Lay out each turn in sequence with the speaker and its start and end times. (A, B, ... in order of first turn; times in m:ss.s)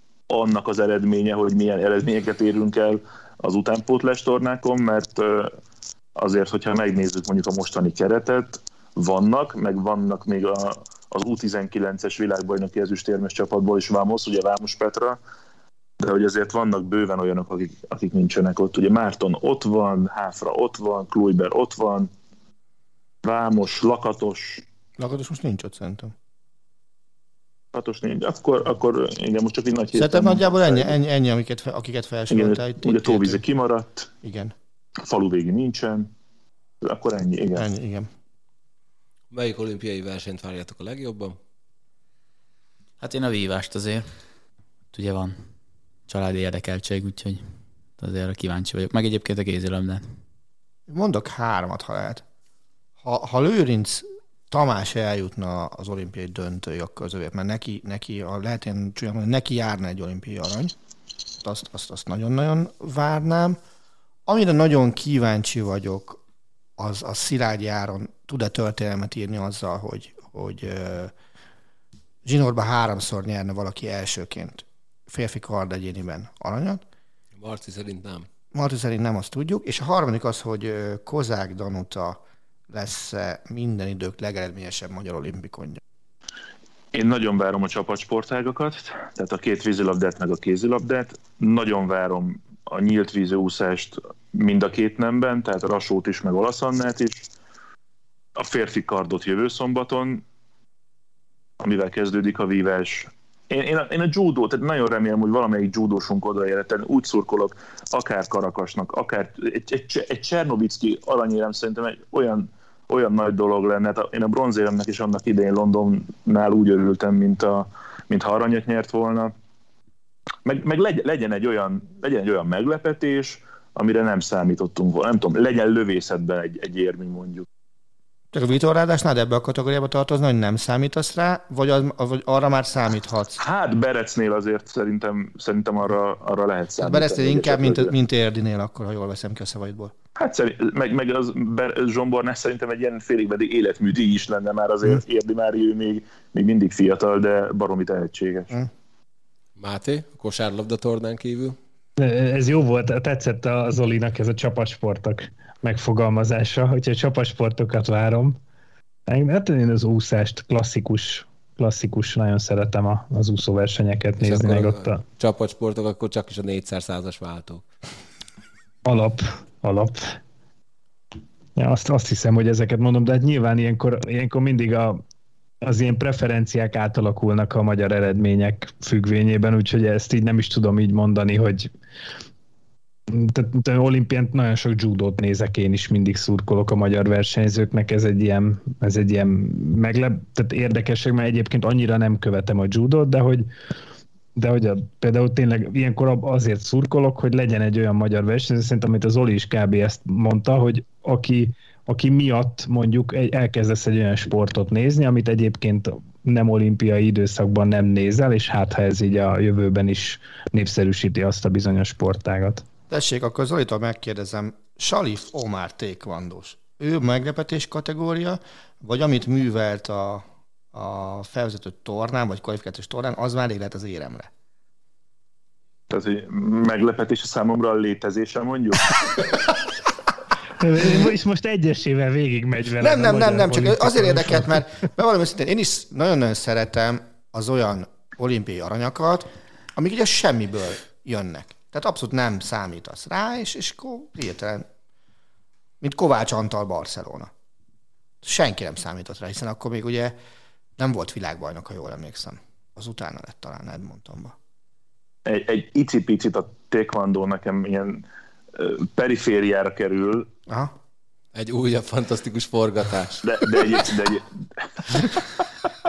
0:00.3-0:05.5 A
0:06.2-0:15.2 A
0:16.0-0:22.1 A
0:23.2-0:24.6 A
0:25.0-0:26.1 B
0:27.7-0:31.0 A
0:30.0-0:33.4 B
0:32.3-0:34.1 A
0:34.2-0:34.6 B
0:35.0-0:36.1 A
0:36.8-0:37.7 A
0:37.6-0:38.1 B
0:39.3-0:41.4 C
0:43.0-0:44.1 D
0:44.9-0:45.4 D
0:46.1-0:47.4 D
0:48.0-0:50.0 D
0:50.9-0:52.2 B
0:53.0-1:00.8 B
1:01.4-1:03.6 B
1:04.3-1:06.2 B
1:06.8-1:11.1 B
1:12.2-1:16.8 B
1:17.4-1:18.3 C
1:18.5-1:25.8 B
1:26.9-1:37.2 A
1:38.4-1:40.2 A
1:41.6-1:59.3 A
2:00.4-2:07.5 A
2:08.3-2:13.4 B
2:13.4-2:17.9 A
2:16.8-2:19.9 B
2:20.2-2:28.5 A
2:29.6-2:31.6 C
2:32.0-2:38.4 E
2:39.1-2:45.0 E
2:44.2-2:47.6 C
2:48.9-2:50.2 E
2:51.6-2:55.0 E
2:55.6-3:01.7 E
3:03.1-3:13.5 E
3:14.4-3:32.7 E
3:32.9-3:44.3 B
3:45.9-3:49.3 A
3:50.6-3:54.6 E
3:52.8-4:04.7 B
4:05.8-4:07.3 B
4:08.2-4:10.2 B
4:10.8-4:14.4 B
4:15.3-4:20.3 A
4:20.5-4:20.8 B
4:21.3-4:23.7 C
4:23.2-4:25.5 A